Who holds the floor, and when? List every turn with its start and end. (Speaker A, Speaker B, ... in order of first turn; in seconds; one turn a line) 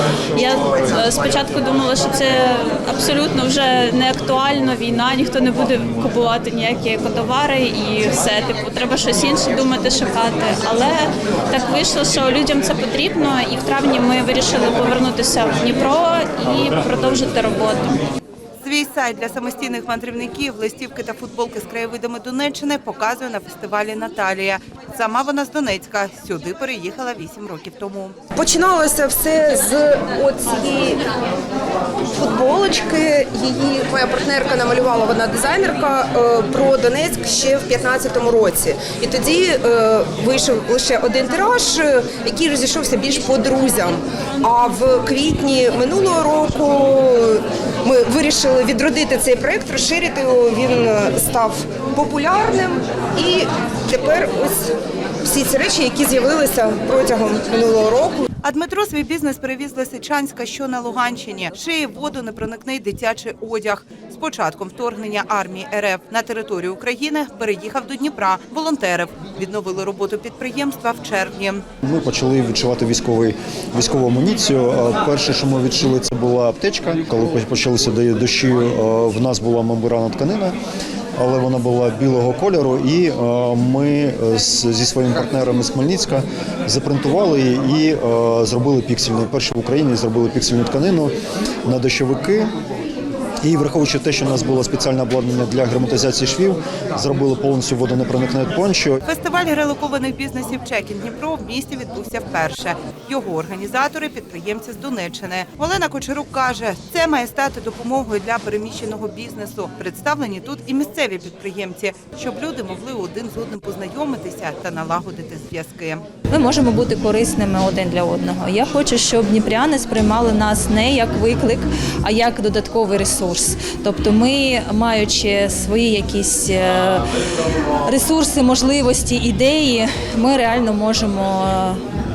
Speaker A: 0.3-18.0
Speaker B: 18.6-28.2
Speaker C: 28.4-31.0
Speaker C: 32.1-54.7
Speaker C: 55.2-58.2
Speaker B: 58.4-71.6
Speaker D: 71.8-80.5
Speaker D: 81.2-91.1
Speaker D: 91.7-92.5
Speaker D: 93.4-99.0
Speaker B: 99.0-116.0
Speaker E: 116.3-127.1
Speaker E: 127.9-131.8